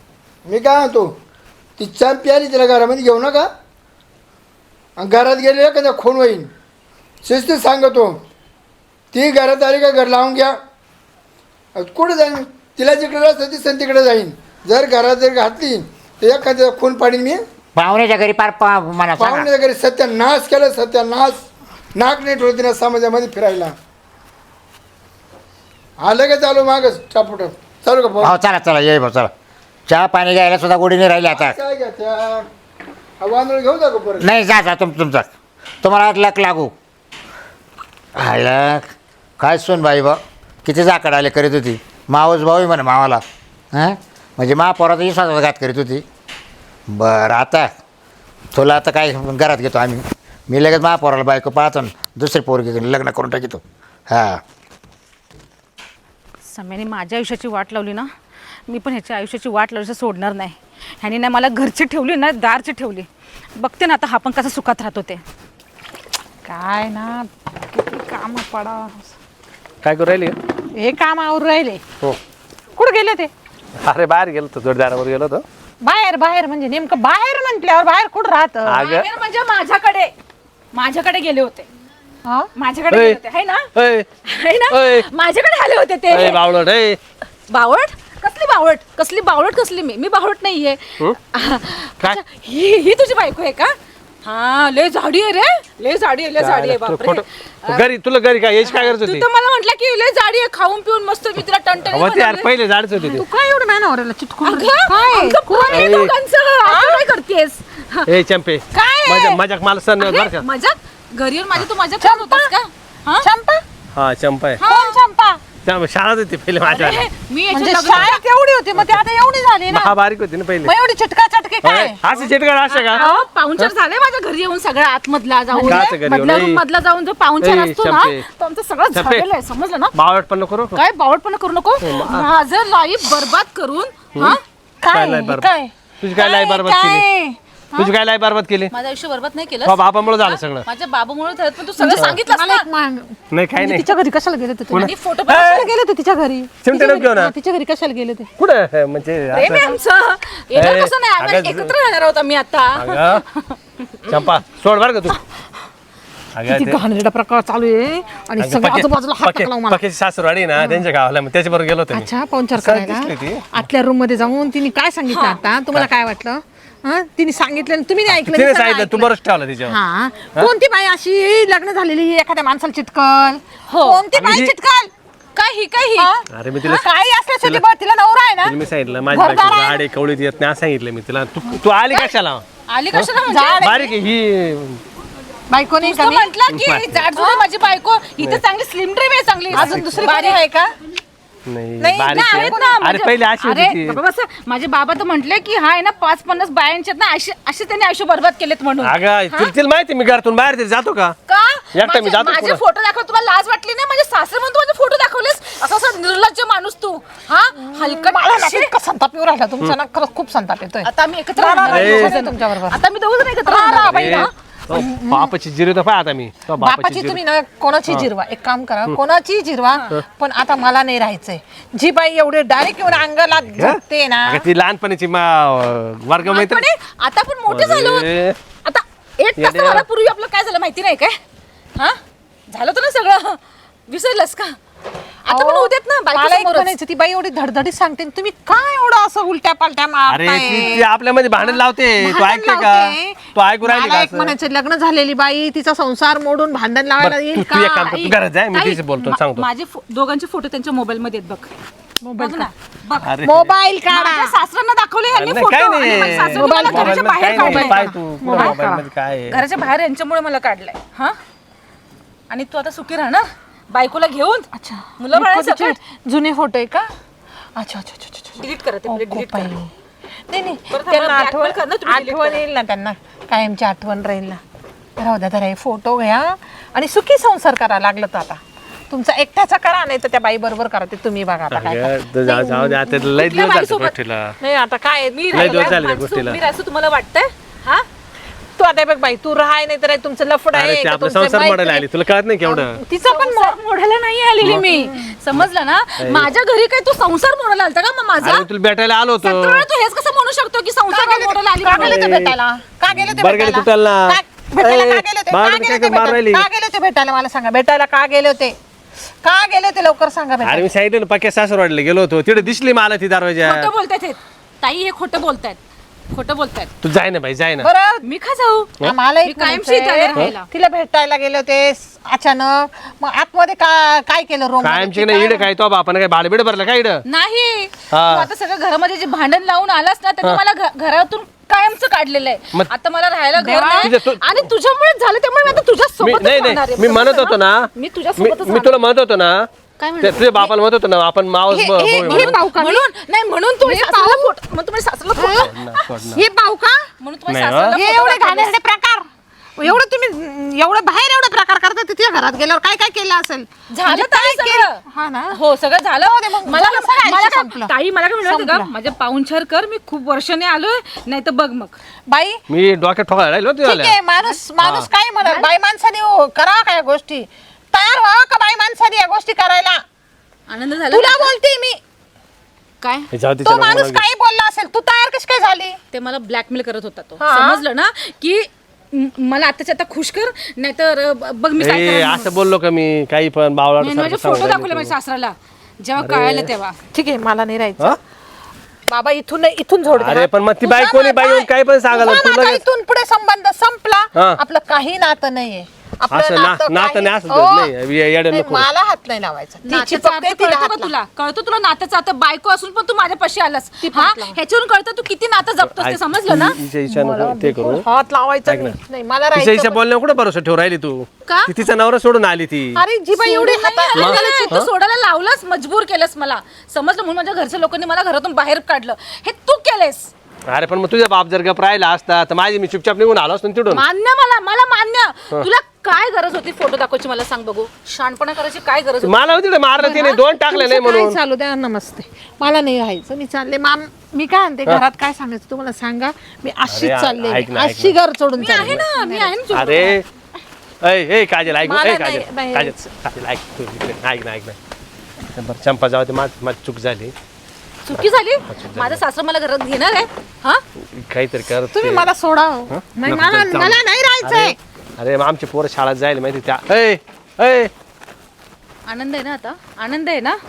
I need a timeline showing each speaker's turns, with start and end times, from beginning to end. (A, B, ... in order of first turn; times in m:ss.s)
0:00.4-0:01.1 A
0:01.8-0:03.5 A
0:05.0-0:06.5 A
0:07.2-0:08.2 A
0:09.1-0:10.6 A
0:11.8-0:17.4 A
0:17.7-0:19.5 B
0:19.2-0:23.8 A
0:26.0-0:28.3 A
0:28.2-0:29.3 B
0:29.9-0:31.6 B
0:31.3-0:32.4 A
0:33.2-0:34.3 A
0:34.2-0:35.3 B
0:35.8-0:36.7 B
0:38.1-0:46.0 B
0:46.9-0:47.7 B
0:48.5-0:54.4 B
0:56.5-0:58.1 C
0:58.7-1:05.2 C
1:06.4-1:09.1 D
1:09.8-1:10.4 E
1:10.7-1:11.8 D
1:12.7-1:13.3 D
1:13.8-1:15.4 E
1:15.8-1:18.8 D
1:18.6-1:19.1 E
1:18.8-1:20.1 C
1:20.7-1:21.7 C
1:22.2-1:22.5 D
1:22.5-1:23.7 C
1:22.9-1:23.2 E
1:23.7-1:24.1 E
1:24.2-1:26.4 C
1:24.7-1:25.1 E
1:26.1-1:27.0 E
1:27.5-1:37.8 C
1:36.4-1:39.2 E
1:38.6-1:42.5 C
1:41.9-1:43.2 E
1:43.0-1:46.0 D
1:44.4-1:48.1 C
1:45.7-1:46.1 E
1:46.6-1:47.1 D
1:48.0-1:50.4 E
1:48.7-1:49.4 D
1:50.0-1:53.3 C
1:52.0-1:52.5 D
1:53.2-1:53.6 D
1:53.9-1:54.6 E
1:54.6-1:55.0 C
1:54.6-1:55.4 D
1:55.6-1:57.1 E
1:56.6-1:58.2 C
1:57.5-1:59.9 D
1:58.7-1:59.0 E
1:59.7-2:00.7 E
2:00.6-2:02.0 D
2:01.6-2:03.0 E
2:02.7-2:09.9 C
2:02.9-2:03.2 D
2:05.5-2:06.0 D
2:05.6-2:06.6 E
2:07.4-2:08.2 E
2:08.9-2:09.3 E
2:09.9-2:10.8 E
2:10.7-2:14.4 C
2:11.8-2:12.3 E
2:14.2-2:17.9 D
2:14.9-2:15.5 E
2:16.0-2:17.0 E
2:17.7-2:18.7 E
2:18.7-2:22.7 C
2:19.6-2:20.6 E
2:21.8-2:28.3 D
2:21.9-2:22.2 E
2:23.3-2:23.9 E
2:24.7-2:25.6 E
2:24.7-2:25.7 C
2:26.6-2:27.3 E
2:28.4-2:29.7 E
2:29.3-2:34.1 C
2:30.5-2:31.7 E
2:32.7-2:33.2 E
2:34.0-2:35.2 E
2:36.3-2:36.8 E
2:36.5-2:39.8 D
2:38.4-2:43.5 E
2:41.9-2:49.1 D
2:45.1-2:45.4 C
2:48.0-2:49.8 E
2:49.6-2:54.9 D
2:53.7-2:54.0 C
2:54.1-2:54.5 E
2:55.3-2:56.1 C
2:56.0-2:58.5 D
2:56.3-2:56.9 E
2:58.4-3:04.8 E
2:59.1-2:59.8 D
3:02.7-3:03.9 C
3:03.2-3:03.8 D
3:05.5-3:06.3 D
3:05.8-3:10.4 C
3:06.5-3:07.0 E
3:07.1-3:07.4 D
3:09.5-3:10.1 E
3:09.5-3:10.7 D
3:11.4-3:14.0 E
3:11.8-3:12.8 D
3:12.1-3:19.4 C
3:18.8-3:21.2 E
3:21.3-3:28.7 C
3:21.7-3:22.6 E
3:27.5-3:32.8 D
3:30.8-3:34.3 C
3:31.6-3:32.2 E
3:33.4-3:35.3 D
3:33.7-3:37.2 E
3:36.6-3:44.4 D
3:43.5-3:46.7 E
3:46.2-3:48.1 C
3:47.5-3:48.4 E
3:48.6-3:51.2 C
3:49.4-3:49.8 E
3:51.8-3:54.5 C
3:55.2-3:56.7 C
3:55.3-4:00.8 D
4:00.1-4:04.3 E
4:02.0-4:07.7 D
4:07.0-4:09.4 E
4:07.6-4:11.5 C
4:12.0-4:12.5 D
4:12.2-4:13.1 C
4:13.0-4:13.5 E
4:13.2-4:14.3 D
4:13.9-4:18.6 C
4:15.1-4:19.4 E
4:15.9-4:18.8 D
4:19.3-4:21.2 C
4:22.3-4:25.8 C
4:24.5-4:26.9 D
4:27.6-4:29.7 D
4:28.4-4:29.5 C
4:30.3-4:34.4 D
4:30.7-4:32.4 C
4:35.0-4:42.8 D
4:41.5-4:44.4 E
4:43.1-4:43.9 C
4:44.4-4:45.7 D
4:45.1-4:47.8 C
4:45.3-4:46.4 E
4:48.6-4:51.8 D
4:50.5-4:52.8 E
4:52.4-4:53.6 D
4:53.0-4:58.4 C
4:54.5-4:55.1 D
4:56.0-4:56.3 E
4:58.2-4:59.6 E
4:59.2-5:02.1 C
5:00.9-5:08.5 D
5:01.7-5:02.4 E
5:02.9-5:06.4 E
5:09.2-5:10.7 D
5:10.4-5:13.7 E
5:13.4-5:15.6 C
5:16.1-5:16.7 C
5:16.8-5:17.7 E
5:17.6-5:18.0 D
5:18.0-5:20.5 C
5:18.8-5:25.5 D
5:24.6-5:27.0 E
5:27.0-5:38.8 C
5:27.9-5:28.3 E
5:33.4-5:33.9 D
5:33.8-5:34.5 E
5:36.0-5:39.5 E
5:39.8-5:40.5 D
5:40.0-5:42.4 E
5:41.5-5:42.9 D
5:42.0-5:45.5 C
5:43.6-5:44.3 D
5:45.2-5:46.9 D
5:45.3-5:46.2 E
5:47.0-5:48.6 C
5:47.3-5:47.8 E
5:47.7-5:49.0 D
5:49.6-5:55.4 D
5:53.7-6:01.8 C
5:56.0-5:57.7 D
5:58.2-5:58.7 D
6:02.1-6:02.4 D
6:02.5-6:04.0 E
6:03.6-6:09.8 D
6:04.6-6:04.9 E
6:10.5-6:11.3 C
6:10.9-6:11.8 D
6:12.8-6:13.1 C
6:13.1-6:14.0 E
6:13.4-6:15.8 D
6:15.9-6:22.3 C
6:17.2-6:17.6 D
6:21.6-6:24.9 E
6:23.8-6:26.8 C
6:26.0-6:26.5 E
6:26.9-6:28.0 D
6:28.9-6:37.7 D
6:29.9-6:32.6 E
6:34.1-6:34.4 E
6:36.1-6:38.7 E
6:38.3-6:40.9 D
6:39.6-6:46.6 C
6:43.8-6:44.4 D
6:45.6-6:47.9 E
6:46.9-6:49.8 D
6:48.4-6:48.7 E
6:49.3-6:52.8 E
6:52.7-6:54.5 D
6:53.1-7:00.1 C
6:54.0-6:54.7 E
7:00.5-7:03.8 E
7:03.7-7:10.0 C
7:09.0-7:11.2 E
7:09.8-7:19.3 D
7:16.6-7:18.9 E
7:18.4-7:20.0 C
7:19.5-7:20.0 E
7:20.8-7:24.6 E
7:21.6-7:22.9 D
7:25.3-7:27.1 E
7:27.8-7:30.6 C
7:27.9-7:29.0 E
7:30.8-7:32.1 E
7:31.7-7:34.6 D
7:32.7-7:37.7 E
7:38.9-7:40.4 C